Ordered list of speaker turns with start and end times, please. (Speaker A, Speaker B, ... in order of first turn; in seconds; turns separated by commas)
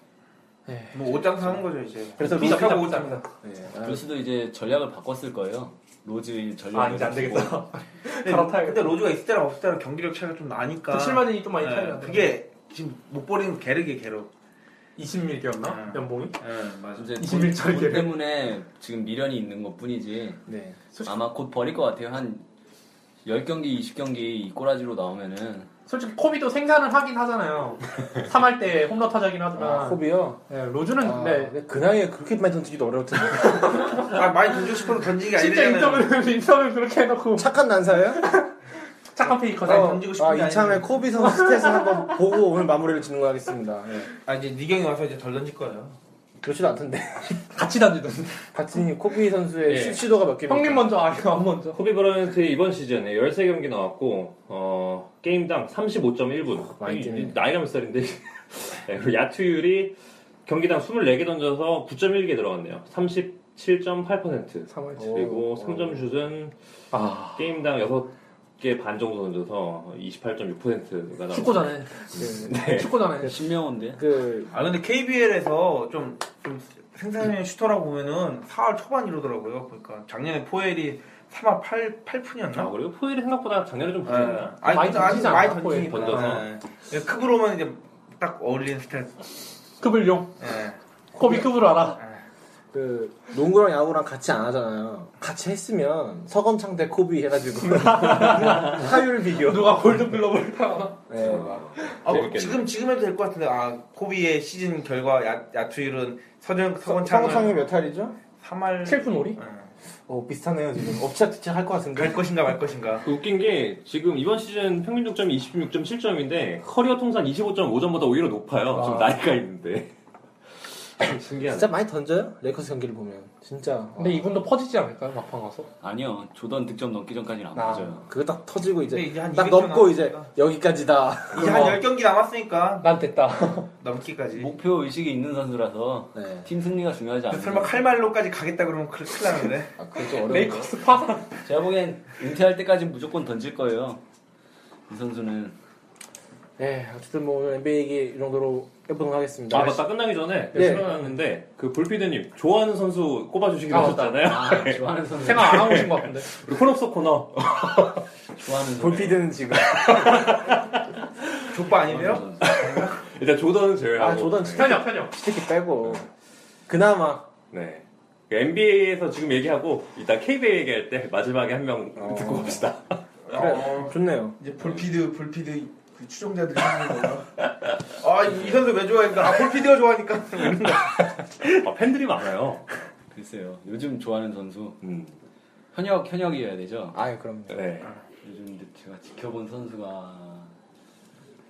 Speaker A: 0.7-1.2, Speaker B: 0.9-3.2, Speaker C: 2.2-2.9, Speaker A: 2.2-3.3, Speaker C: 3.4-4.0, Speaker D: 3.8-7.6, Speaker A: 6.7-9.0, Speaker B: 8.2-14.3, Speaker A: 10.9-12.4, Speaker A: 15.0-16.4, Speaker B: 15.6-17.1, Speaker D: 16.9-20.4, Speaker A: 17.2-18.2, Speaker C: 20.5-20.8, Speaker A: 20.9-21.2, Speaker D: 21.0-22.4, Speaker D: 23.2-25.7, Speaker A: 25.9-31.5, Speaker C: 29.6-30.4, Speaker C: 30.9-34.0, Speaker A: 33.4-34.2, Speaker B: 34.0-36.1, Speaker A: 35.3-37.5, Speaker C: 37.4-38.2, Speaker A: 38.1-38.5, Speaker A: 39.1-40.1, Speaker B: 39.2-41.0, Speaker C: 39.6-44.1, Speaker A: 41.2-42.1, Speaker B: 44.2-46.0, Speaker C: 46.4-47.4, Speaker A: 47.5-48.4, Speaker C: 48.5-50.9, Speaker A: 49.7-51.8, Speaker E: 51.7-73.0, Speaker C: 56.6-57.4, Speaker C: 65.0-66.0, Speaker A: 66.9-67.3, Speaker A: 71.3-73.4, Speaker C: 72.2-72.9, Speaker D: 73.2-74.0, Speaker C: 73.9-74.5, Speaker B: 74.5-82.7, Speaker E: 82.5-86.5, Speaker B: 84.0-89.3, Speaker A: 84.6-86.3, Speaker A: 89.8-90.4, Speaker B: 90.4-91.4, Speaker A: 91.1-92.0, Speaker B: 91.9-92.2, Speaker C: 92.7-99.9, Speaker A: 97.7-101.0, Speaker C: 101.1-101.7, Speaker E: 101.2-102.7, Speaker A: 101.8-102.0, Speaker B: 102.0-107.6, Speaker C: 106.8-108.2, Speaker B: 108.4-109.7, Speaker A: 108.8-109.4, Speaker C: 110.1-112.2, Speaker B: 111.9-113.0, Speaker E: 113.0-119.9, Speaker A: 118.7-119.1, Speaker E: 121.0-121.7, Speaker C: 121.5-124.3, Speaker A: 124.0-125.7, Speaker D: 125.8-128.1, Speaker C: 127.5-131.8, Speaker B: 128.9-130.3, Speaker B: 131.3-132.9, Speaker A: 131.4-131.8, Speaker A: 132.8-133.7, Speaker B: 133.8-134.5, Speaker D: 134.4-137.8, Speaker C: 136.1-136.5, Speaker B: 137.3-139.7, Speaker C: 139.8-140.7, Speaker A: 140.1-141.3, Speaker D: 141.4-144.0, Speaker D: 144.9-145.5, Speaker C: 146.6-149.8, Speaker E: 149.5-158.0, Speaker C: 150.5-150.9, Speaker A: 150.5-150.9, Speaker A: 153.7-154.2, Speaker D: 154.0-155.8, Speaker A: 155.2-156.3, Speaker D: 158.4-159.3, Speaker C: 158.7-160.4, Speaker E: 159.6-160.8, Speaker B: 161.5-163.0, Speaker D: 161.8-162.6, Speaker E: 162.4-164.7, Speaker C: 163.9-166.1, Speaker A: 164.5-165.1, Speaker C: 166.7-167.3, Speaker E: 167.5-172.9, Speaker C: 172.0-172.7, Speaker B: 173.3-177.3, Speaker C: 173.3-174.4, Speaker E: 174.6-174.9, Speaker B: 177.9-181.1, Speaker E: 181.4-182.7, Speaker D: 183.1-184.8, Speaker E: 184.8-185.2, Speaker D: 185.7-187.0, Speaker C: 186.9-187.7, Speaker E: 187.5-187.9, Speaker D: 188.2-190.5